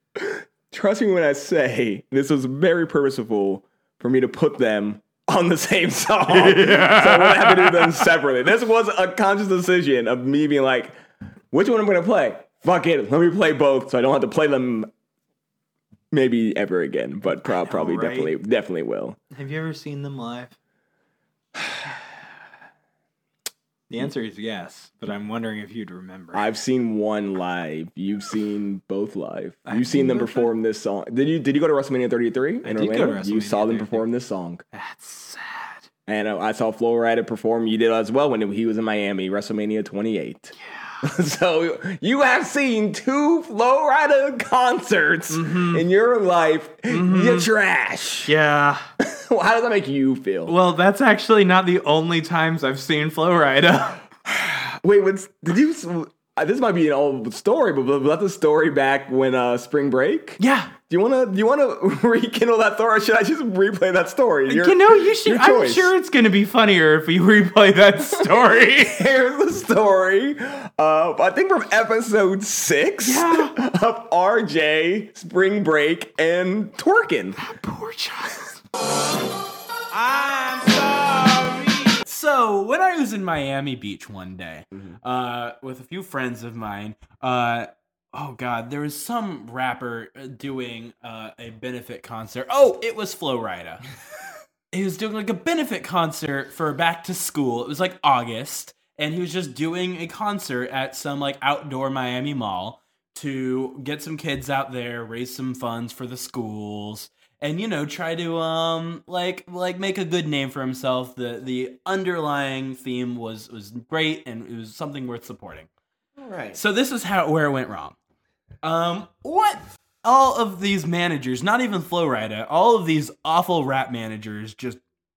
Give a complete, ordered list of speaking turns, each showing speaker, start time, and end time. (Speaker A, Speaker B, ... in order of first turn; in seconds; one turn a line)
Speaker A: 0.1-11.0
Speaker B: 6.2-8.1
Speaker A: 11.5-14.9
Speaker A: 16.1-19.2
Speaker B: 17.4-18.3
Speaker B: 19.3-20.5
Speaker B: 23.9-26.5
Speaker A: 26.3-34.6
Speaker B: 29.6-30.5
Speaker B: 32.6-34.0
Speaker B: 34.7-35.9
Speaker A: 36.0-48.3
Speaker B: 40.6-41.0
Speaker B: 45.3-45.8
Speaker B: 46.9-47.5
Speaker B: 48.2-48.8
Speaker A: 49.0-50.5
Speaker B: 50.5-54.1
Speaker A: 54.2-65.9
Speaker B: 60.4-60.7
Speaker B: 64.5-69.0
Speaker A: 68.2-77.4
Speaker B: 73.0-73.5
Speaker B: 77.4-78.6
Speaker B: 79.9-93.8
Speaker B: 94.7-115.7
Speaker A: 116.2-116.6
Speaker B: 116.5-118.0
Speaker B: 118.6-124.8